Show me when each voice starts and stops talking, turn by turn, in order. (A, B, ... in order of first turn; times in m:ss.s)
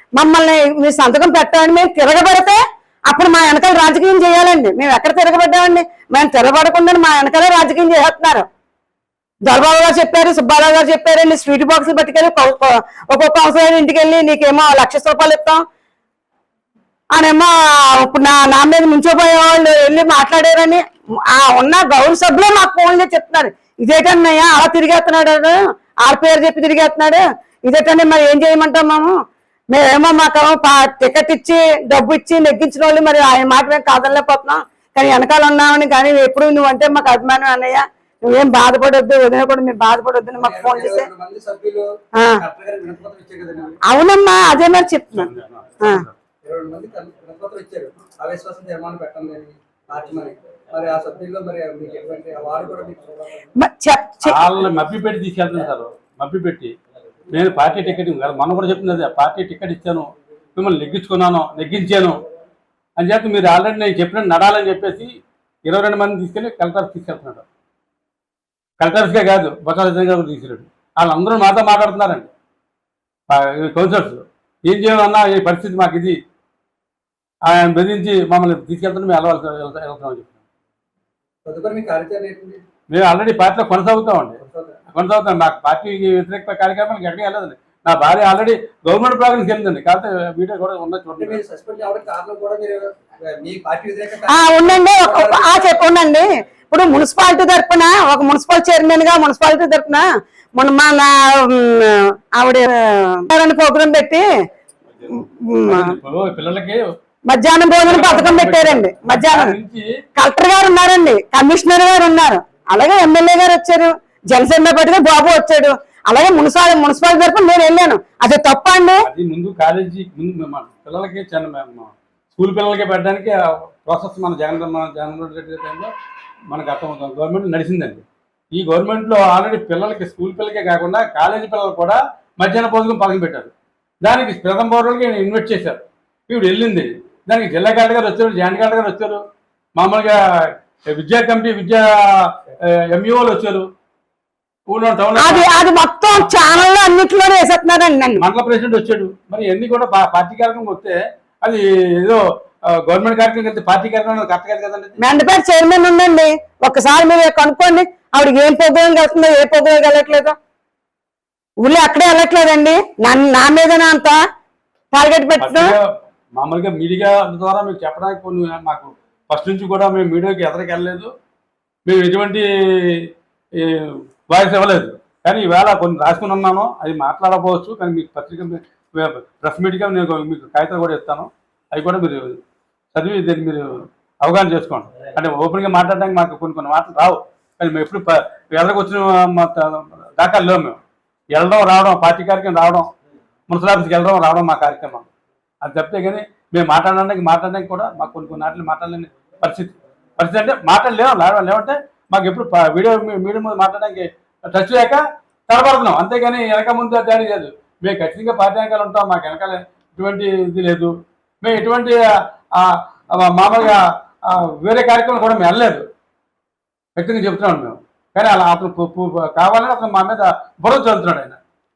0:00.2-0:08.5 A
0:09.4-0:15.6 A
0:17.1-0:29.1 A
0:29.7-0:41.1 A
0:40.4-0:43.8 B
0:43.8-0:46.0 A
0:45.1-0:46.2 C
0:46.4-0:53.4 B
0:53.6-0:54.4 A
0:54.2-0:56.7 C
0:57.3-1:02.2 C
1:03.0-1:05.1 C
1:05.6-1:07.4 C
1:08.8-1:12.3 C
1:13.3-1:16.2 C
1:17.4-1:20.3 C
1:21.4-1:22.6 B
1:22.9-1:31.4 C
1:24.4-1:24.8 B
1:31.2-1:35.8 B
1:34.3-1:44.3 A
1:45.1-1:46.0 A
1:45.6-1:46.8 C
1:47.3-1:49.6 A
1:47.9-1:49.9 C
1:50.2-1:59.1 A
1:59.0-2:05.9 C
2:06.5-2:08.0 C
2:08.6-2:13.5 C
2:14.0-2:19.2 C
2:19.8-2:23.7 C
2:24.7-2:26.6 C
2:25.2-2:28.2 A
2:28.2-2:35.0 C
2:35.0-2:40.4 A
2:41.6-2:44.2 A
2:44.9-2:45.8 A
2:45.4-2:45.8 C
2:46.4-2:51.1 C
2:51.9-3:02.4 C
3:02.9-3:10.8 C
3:11.3-3:12.9 C
3:13.5-3:15.1 C
3:15.6-3:32.0 C
3:32.5-3:35.8 C
3:37.0-3:41.4 C